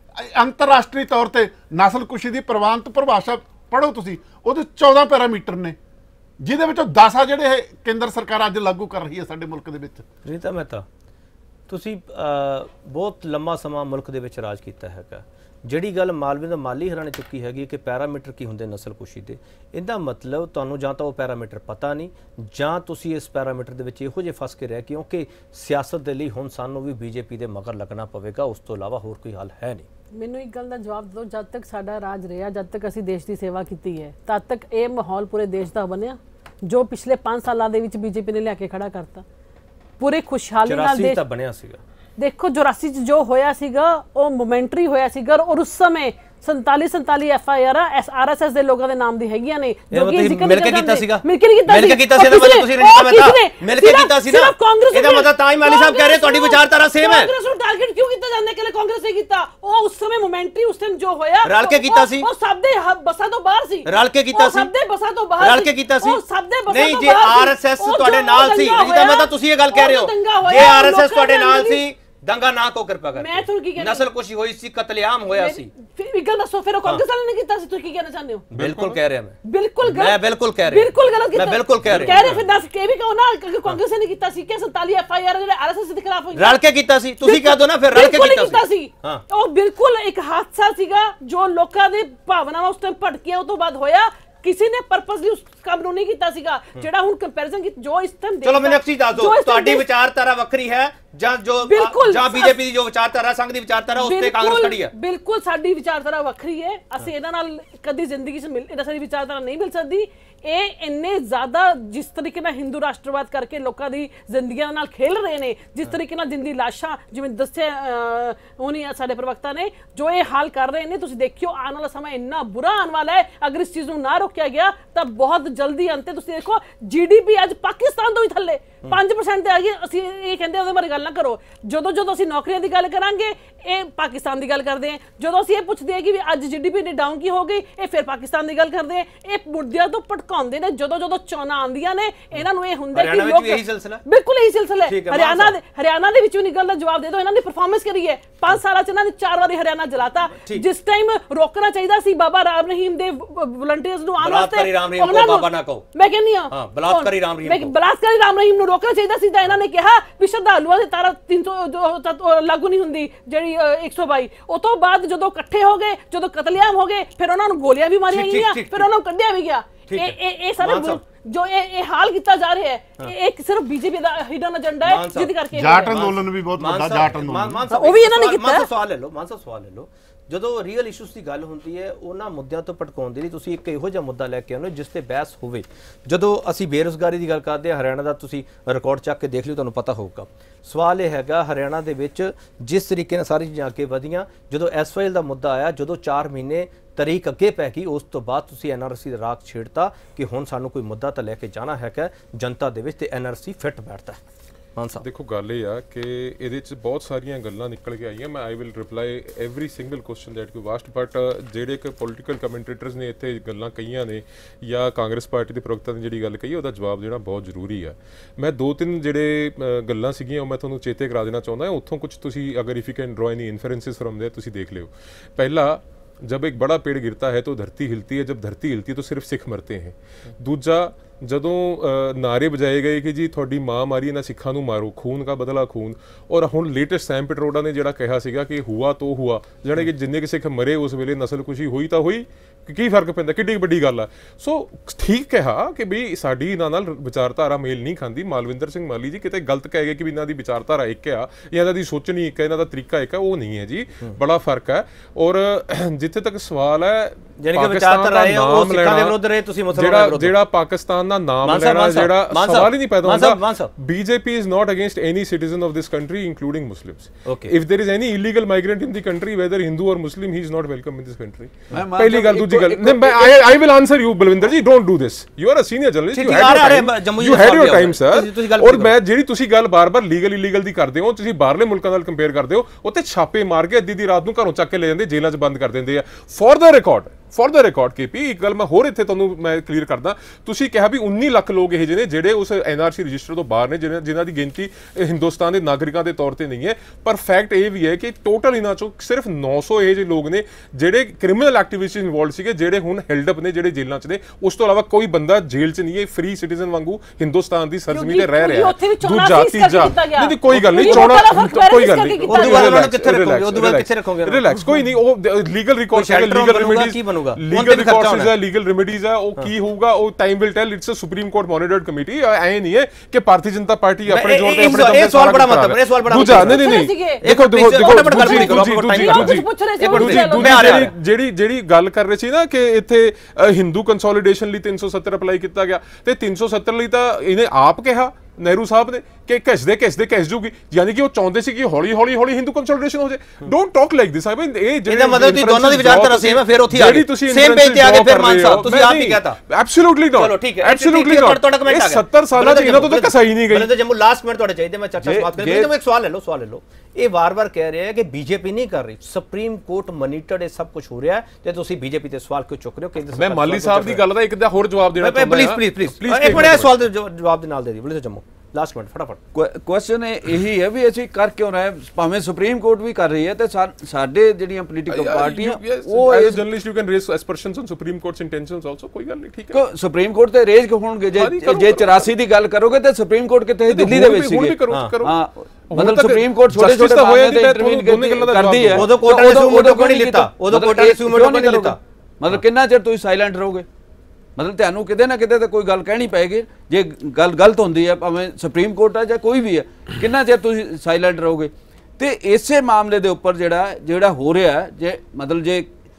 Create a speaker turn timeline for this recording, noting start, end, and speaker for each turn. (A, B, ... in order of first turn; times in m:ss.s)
0:00.2-0:05.8 A
0:06.4-0:10.1 A
0:10.2-0:10.8 B
0:11.7-0:29.9 B
0:30.2-0:39.2 C
0:40.0-0:41.2 C
0:40.7-0:41.8 B
0:42.2-1:11.8 C
0:49.9-0:57.3 B
1:01.4-1:02.3 B
1:03.9-1:04.7 B
1:05.4-1:15.7 B
1:13.2-1:14.1 C
1:15.3-1:18.5 C
1:18.5-1:19.0 D
1:18.5-1:22.5 B
1:19.4-1:26.6 C
1:21.8-1:22.2 D
1:26.4-1:29.2 B
1:27.2-1:39.8 C
1:38.4-1:44.9 B
1:41.7-1:42.6 C
1:44.0-2:56.0 C
2:23.0-2:24.0 B
2:24.9-2:25.6 B
2:30.4-2:30.6 B
2:34.2-2:35.9 B
2:36.5-2:37.7 B
2:48.1-2:48.9 B
2:49.9-2:51.0 B
2:54.8-3:24.2 B
2:55.5-2:57.6 A
2:57.7-2:58.7 C
3:24.8-3:25.0 B
3:25.0-4:19.2 D
4:17.4-4:20.4 B
4:19.7-5:53.7 D
4:21.4-4:23.7 B
4:27.3-4:27.5 B
4:31.7-4:33.4 E
4:36.1-4:39.0 B
5:07.9-5:12.8 C
5:10.5-5:11.0 B
5:12.3-5:14.9 B
5:15.9-5:18.3 B
5:24.1-5:26.7 B
5:26.3-5:27.2 C
5:27.2-5:30.9 B
5:27.8-5:30.9 C
5:44.9-5:49.4 B
5:50.2-6:04.0 B
5:55.0-5:55.7 E
6:03.2-6:06.8 D
6:05.0-6:09.2 B
6:09.3-6:16.4 E
6:14.9-6:19.6 D
6:19.5-6:33.7 E
6:21.2-6:22.1 D
6:23.7-6:25.1 D
6:24.7-6:24.9 B
6:25.7-6:28.9 D
6:28.8-6:31.8 B
6:34.4-6:45.7 E